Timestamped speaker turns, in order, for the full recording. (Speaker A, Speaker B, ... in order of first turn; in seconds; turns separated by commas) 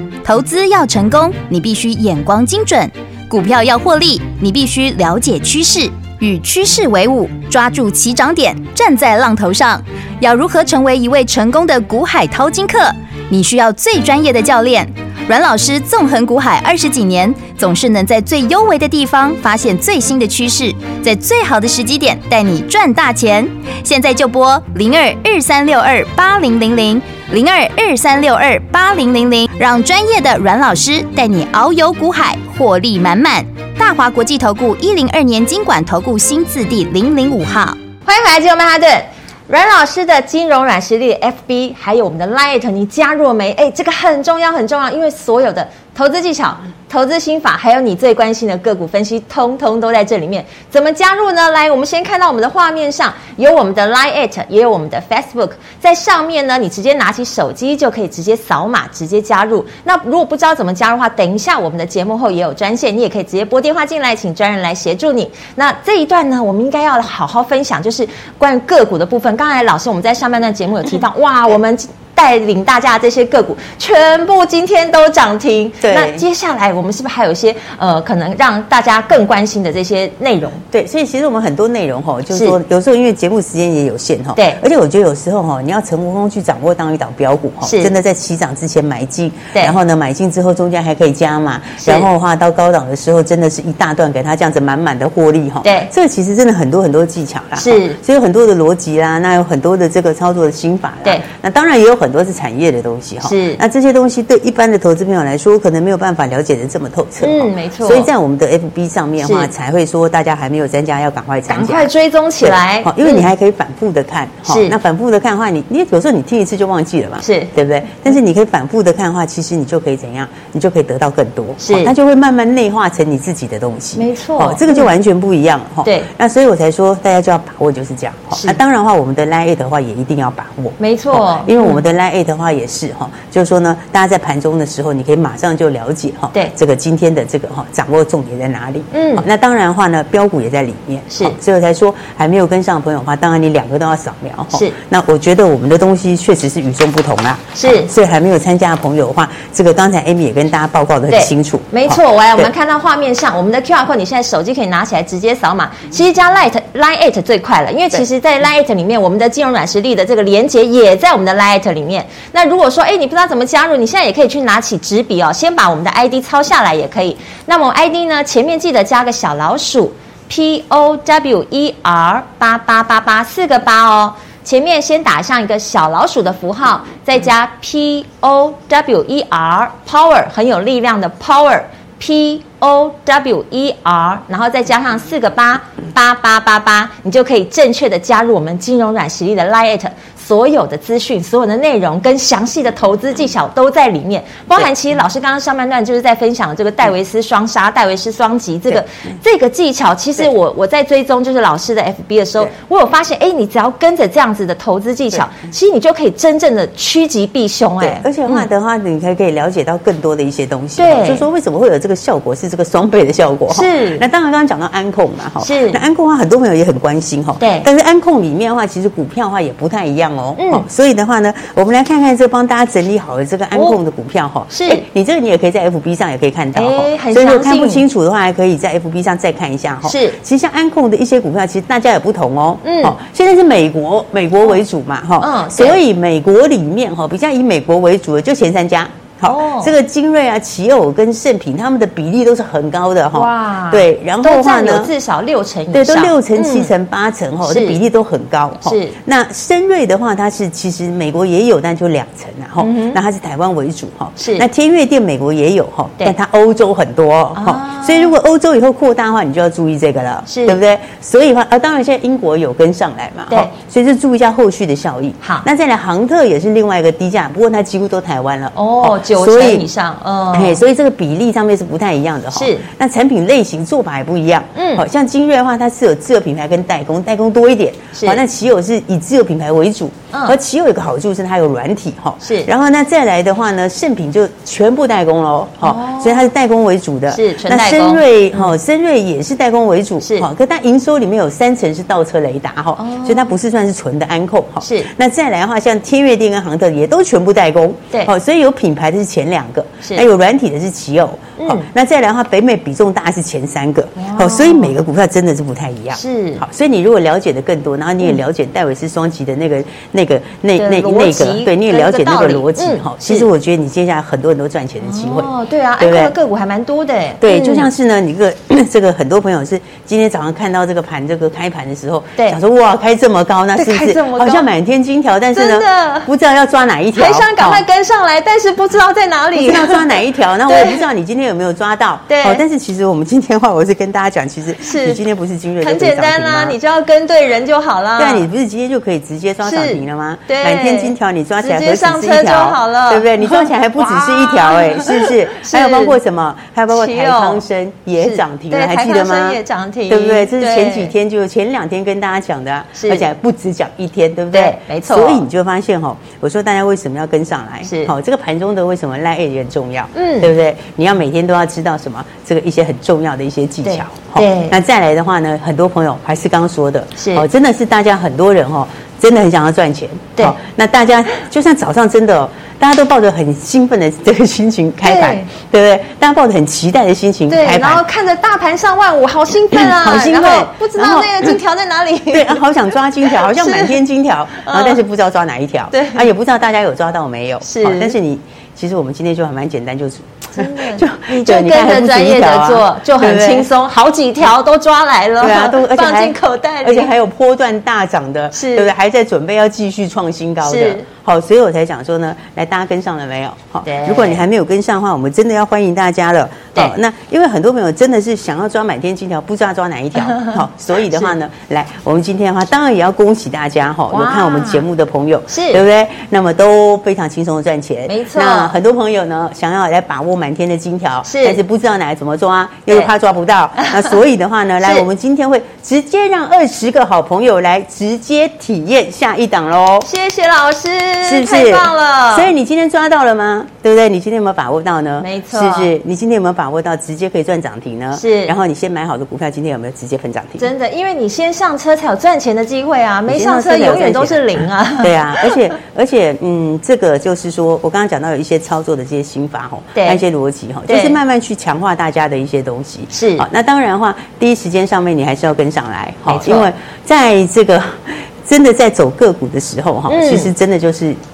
Speaker A: 0.2-37.8, Speaker B: 38.0-80.6, Speaker C: 75.8-76.2, Speaker C: 80.7-111.9, Speaker B: 87.6-87.9, Speaker B: 91.8-92.1, Speaker B: 95.6-95.9, Speaker B: 97.5-98.0, Speaker B: 103.2-103.6, Speaker B: 107.2-108.1, Speaker B: 109.2-109.5, Speaker B: 111.5-113.3, Speaker C: 112.4-152.5, Speaker B: 114.5-114.7, Speaker B: 117.2-117.5, Speaker B: 121.6-121.9, Speaker B: 124.0-124.9, Speaker B: 128.3-128.6, Speaker B: 130.8-131.8, Speaker B: 138.9-139.2, Speaker B: 141.1-141.4, Speaker B: 144.5-144.8, Speaker B: 147.5-147.9, Speaker B: 151.1-208.5, Speaker C: 207.8-244.9, Speaker B: 210.8-211.2, Speaker B: 213.5-214.1, Speaker B: 215.4-215.8, Speaker B: 217.4-217.7, Speaker B: 220.4-220.6, Speaker B: 224.5-224.8, Speaker B: 226.5-227.8, Speaker B: 229.8-230.2, Speaker B: 232.6-232.9, Speaker B: 235.2-235.8, Speaker B: 239.2-239.7, Speaker B: 243.1-246.7, Speaker C: 245.7-269.7, Speaker B: 247.4-247.8, Speaker B: 248.6-248.9, Speaker B: 252.6-253.0, Speaker B: 254.2-254.4, Speaker B: 257.4-258.1, Speaker B: 260.3-260.6, Speaker B: 265.2-265.4, Speaker B: 268.5-270.6, Speaker C: 270.3-316.1, Speaker B: 272.3-272.7, Speaker B: 274.6-274.8, Speaker B: 277.9-278.2, Speaker B: 282.2-282.5, Speaker B: 285.6-286.3, Speaker B: 287.1-288.5, Speaker B: 290.0-290.3, Speaker B: 292.8-293.3, Speaker B: 294.6-294.9, Speaker B: 301.4-301.7, Speaker B: 303.9-304.7, Speaker B: 305.9-306.4, Speaker B: 310.6-313.3, Speaker B: 314.8-317.7, Speaker C: 317.2-327.6, Speaker B: 323.6-324.4, Speaker B: 325.3-326.1, Speaker B: 326.9-330.0, Speaker C: 329.3-336.6, Speaker B: 330.5-330.8, Speaker B: 332.1-332.4, Speaker B: 334.6-335.0, Speaker B: 335.6-338.3, Speaker C: 338.0-377.8, Speaker B: 339.4-345.9, Speaker B: 346.7-347.4, Speaker B: 348.0-350.9, Speaker B: 352.8-353.1, Speaker B: 354.3-355.2, Speaker B: 357.6-357.9, Speaker B: 359.9-360.3, Speaker B: 363.6-364.6, Speaker B: 367.0-367.2, Speaker B: 374.8-375.3, Speaker B: 377.3-382.4, Speaker C: 379.5-381.3, Speaker C: 382.1-393.5, Speaker B: 383.1-383.8, Speaker B: 384.4-384.8, Speaker B: 385.7-386.1, Speaker B: 387.4-387.9, Speaker B: 390.3-396.9, Speaker C: 395.2-429.9, Speaker B: 398.3-398.7, Speaker B: 400.4-400.8, Speaker B: 403.6-404.2, Speaker B: 413.9-414.6, Speaker B: 415.3-415.6, Speaker B: 417.9-418.5, Speaker B: 421.1-421.4, Speaker B: 423.6-423.8, Speaker B: 429.8-432.3, Speaker C: 431.0-440.5, Speaker B: 435.0-435.7, Speaker B: 437.9-438.3, Speaker B: 440.4-445.4, Speaker C: 443.1-461.0, Speaker B: 449.7-450.0, Speaker B: 450.7-451.0, Speaker B: 452.9-453.2, Speaker B: 456.1-456.5, Speaker B: 459.9-460.3